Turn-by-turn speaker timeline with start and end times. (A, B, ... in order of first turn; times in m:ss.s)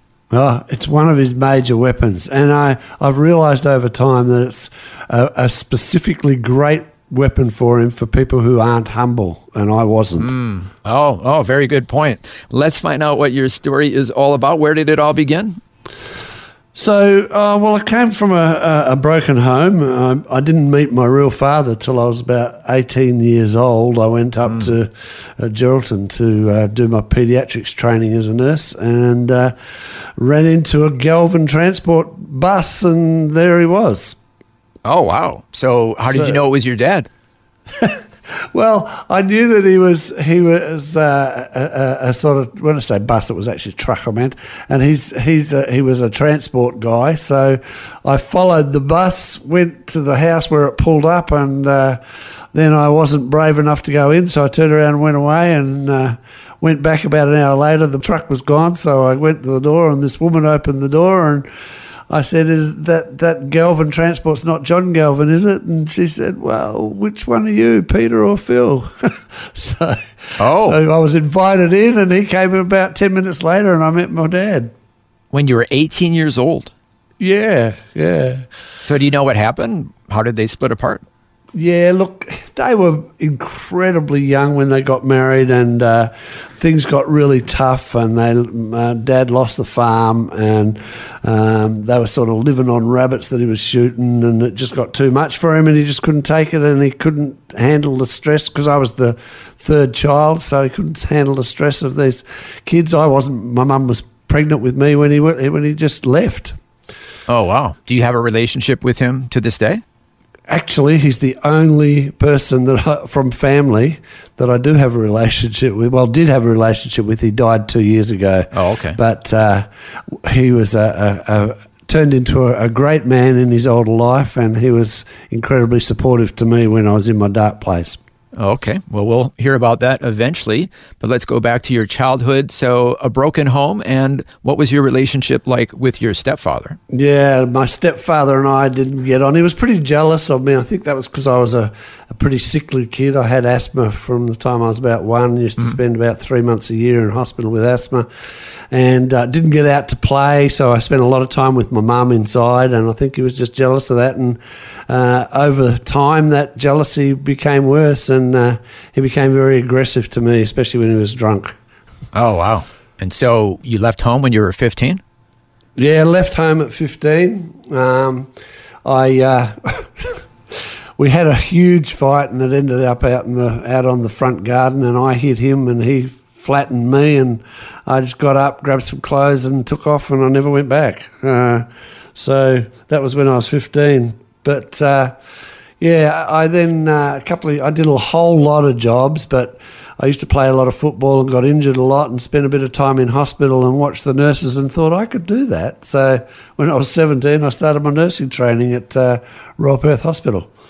0:00.3-0:10.3 A
0:10.2-0:15.6 B
0:16.8-0:29.6 A
0:30.2-0:34.2 A
0:34.8-0:37.1 B
0:36.0-0:36.4 A
0:37.7-0:52.0 A
0:52.5-1:01.5 A
1:02.1-1:14.7 A
1:10.4-1:10.8 B
1:15.3-1:16.7 B
1:17.2-1:18.5 A
1:18.8-1:21.0 B
1:21.6-1:46.6 A
1:47.3-1:49.8 B
1:50.5-2:08.0 A
1:58.5-1:59.0 B
2:08.4-2:16.8 B
2:16.9-2:41.6 A
2:42.1-2:45.0 B
2:45.8-2:48.3 A
2:48.8-2:50.2 A
2:51.0-3:05.2 A
3:05.8-3:20.5 A